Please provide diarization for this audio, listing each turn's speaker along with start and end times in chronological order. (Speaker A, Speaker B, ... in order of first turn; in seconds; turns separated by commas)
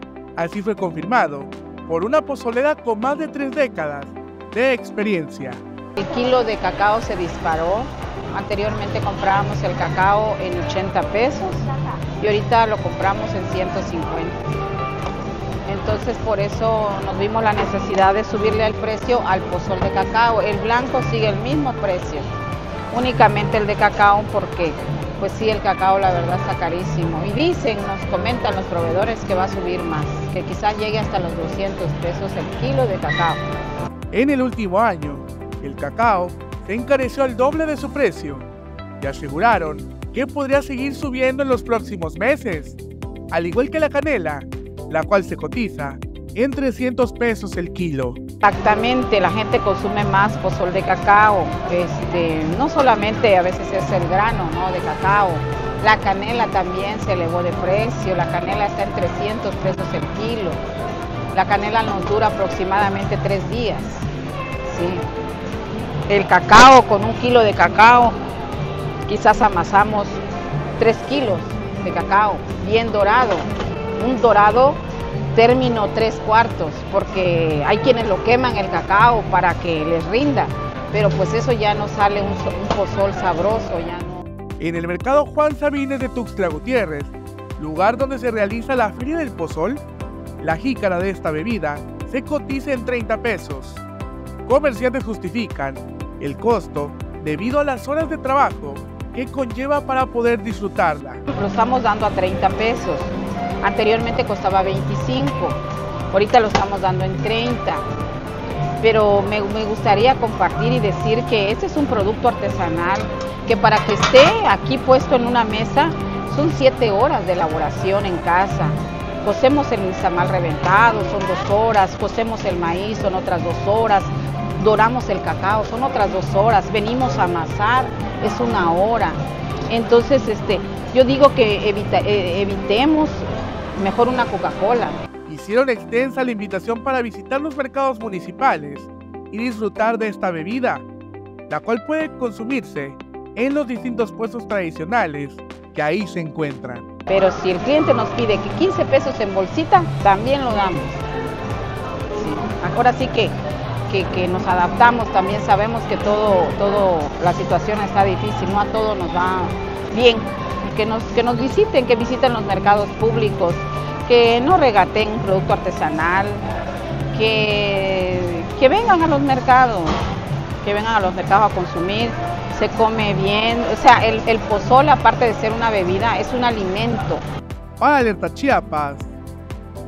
Speaker A: 0.4-5.6, Speaker B: 6.0-14.4, Speaker B: 15.7-22.3, Speaker B: 22.9-33.4, Speaker A: 34.1-38.5, Speaker A: 39.0-42.8, Speaker A: 43.3-48.2, Speaker B: 48.4-60.6, Speaker B: 61.3-64.1, Speaker B: 64.6-65.0, Speaker B: 66.1-68.2, Speaker B: 69.0-70.2, Speaker B: 70.8-73.5, Speaker B: 74.0-74.8, Speaker B: 75.3-84.2, Speaker A: 84.6-89.8, Speaker A: 90.4-93.8, Speaker A: 94.5-101.2, Speaker B: 101.3-105.6, Speaker B: 106.1-107.8, Speaker B: 108.8-135.0, Speaker A: 135.2-140.8, Speaker A: 141.5-146.8, Speaker B: 147.1-151.0, Speaker B: 152.1-153.3, Speaker B: 153.9-166.5, Speaker B: 167.1-170.0, Speaker B: 170.6-177.2, Speaker A: 177.8-179.2